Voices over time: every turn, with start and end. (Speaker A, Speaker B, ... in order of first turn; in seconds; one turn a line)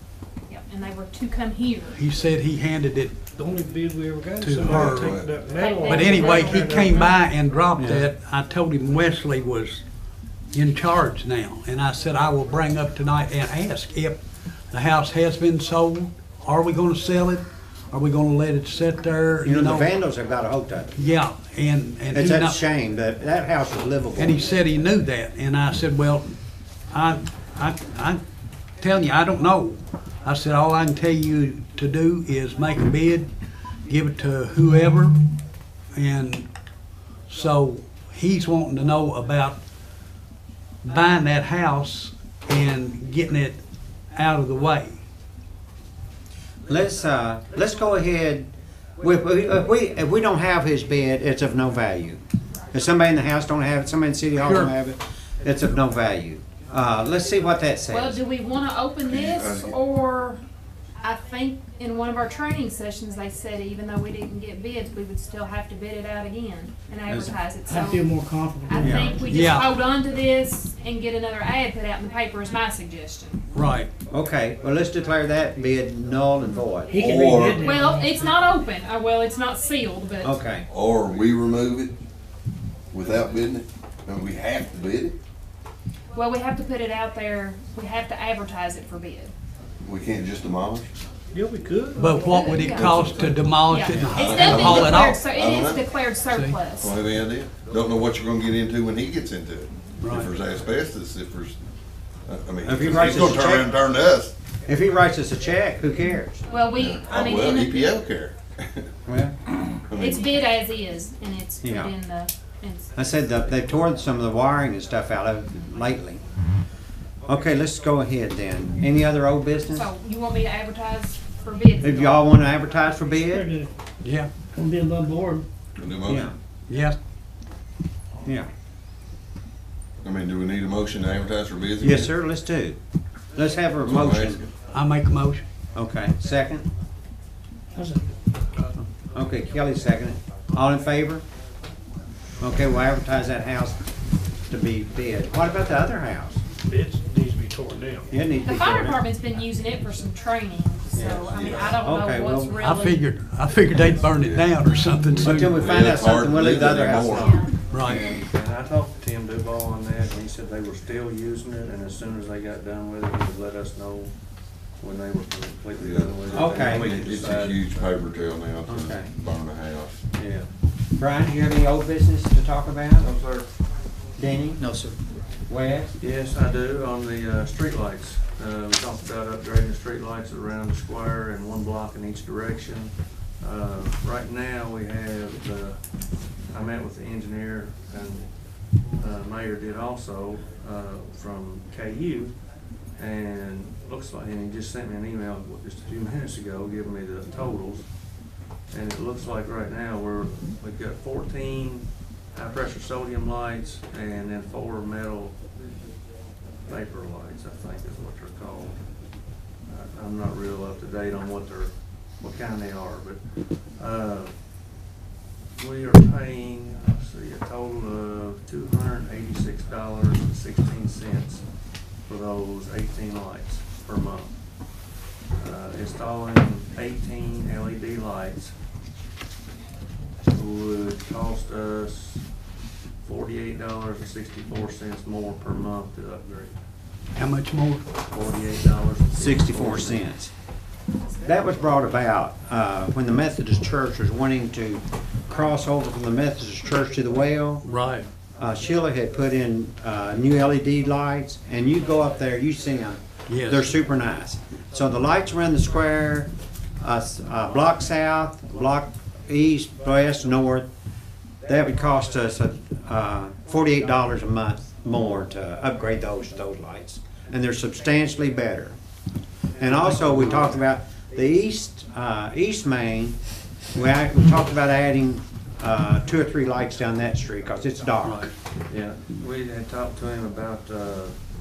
Speaker A: 0.5-2.0
Speaker B: 1.9-3.3
Speaker C: 3.3-6.9
Speaker B: 4.4-5.3
Speaker D: 4.7-5.3
Speaker A: 5.5-7.2
Speaker B: 5.8-9.8
Speaker E: 7.8-8.1
Speaker B: 10.5-19.9
Speaker E: 19.4-20.9
Speaker B: 20.9-22.6
Speaker E: 22.1-24.4
Speaker B: 24.2-26.3
Speaker B: 26.9-28.2
Speaker B: 28.8-33.3
Speaker B: 33.9-35.2
Speaker B: 36.0-36.5
Speaker B: 37.3-39.6
Speaker B: 40.8-43.6
Speaker B: 44.1-45.0
Speaker E: 46.7-52.2
Speaker E: 52.7-58.2
Speaker B: 54.4-54.7
Speaker A: 57.9-60.4
Speaker D: 59.1-59.8
Speaker A: 61.0-73.4
Speaker E: 67.1-67.3
Speaker C: 67.7-69.4
Speaker E: 68.8-69.2
Speaker B: 69.3-69.7
Speaker B: 73.5-73.9
Speaker E: 74.1-77.0
Speaker C: 76.9-78.4
Speaker D: 77.0-77.7
Speaker A: 77.6-80.4
Speaker E: 80.2-80.7
Speaker D: 80.7-82.0
Speaker D: 82.9-85.2
Speaker A: 86.1-89.3
Speaker D: 89.8-90.9
Speaker C: 91.3-92.2
Speaker B: 92.0-95.2
Speaker A: 92.2-92.9
Speaker D: 92.7-93.5
Speaker A: 93.7-96.9
Speaker D: 94.1-96.1
Speaker B: 96.3-96.7
Speaker D: 96.7-101.6
Speaker B: 100.0-100.3
Speaker D: 102.3-104.3
Speaker E: 102.7-103.7
Speaker E: 104.7-106.4
Speaker A: 106.5-107.9
Speaker D: 106.7-108.9
Speaker E: 109.1-109.3
Speaker D: 109.9-110.2
Speaker A: 110.0-113.0
Speaker E: 111.6-111.9
Speaker E: 113.0-116.2
Speaker E: 117.3-119.9
Speaker A: 119.7-122.3
Speaker E: 121.8-123.5
Speaker C: 123.2-123.7
Speaker B: 124.0-124.3
Speaker C: 124.5-125.5
Speaker D: 125.8-126.3
Speaker E: 126.0-126.3
Speaker B: 126.7-127.0
Speaker D: 130.0-132.1
Speaker E: 131.8-132.8
Speaker E: 133.3-134.5
Speaker D: 133.8-134.5
Speaker B: 134.7-135.5
Speaker E: 135.7-136.7
Speaker C: 137.8-138.1
Speaker E: 139.0-141.2
Speaker E: 142.4-143.9
Speaker E: 144.5-146.4
Speaker C: 146.6-148.1
Speaker E: 148.1-149.0
Speaker A: 148.4-153.0
Speaker E: 150.9-152.6
Speaker D: 151.3-151.8
Speaker B: 152.6-155.7
Speaker D: 154.2-154.5
Speaker D: 155.1-157.4
Speaker E: 155.2-157.3
Speaker F: 156.7-164.1
Speaker A: 157.1-157.5
Speaker B: 157.7-158.1
Speaker F: 164.8-167.7
Speaker D: 165.8-170.0
Speaker E: 166.3-167.0
Speaker E: 168.7-169.1
Speaker F: 170.1-170.5
Speaker E: 171.0-173.1
Speaker D: 173.0-173.4
Speaker E: 174.2-174.7
Speaker E: 175.5-175.9
Speaker F: 176.0-185.8
Speaker F: 186.5-188.3
Speaker F: 189.0-192.4
Speaker F: 193.0-197.9
Speaker F: 198.7-205.4
Speaker F: 206.7-208.8
Speaker F: 209.7-213.2
Speaker F: 213.8-214.3
Speaker F: 215.6-221.4
Speaker F: 222.1-224.3
Speaker F: 225.4-228.5
Speaker F: 230.3-232.2
Speaker F: 233.0-236.5
Speaker B: 237.2-237.9
Speaker F: 238.1-240.0
Speaker E: 239.2-240.3
Speaker E: 241.2-247.6
Speaker B: 247.7-248.1
Speaker E: 248.4-260.7
Speaker B: 253.3-253.7
Speaker E: 261.4-268.8
Speaker E: 269.6-273.2
Speaker E: 273.7-278.3
Speaker F: 278.0-281.1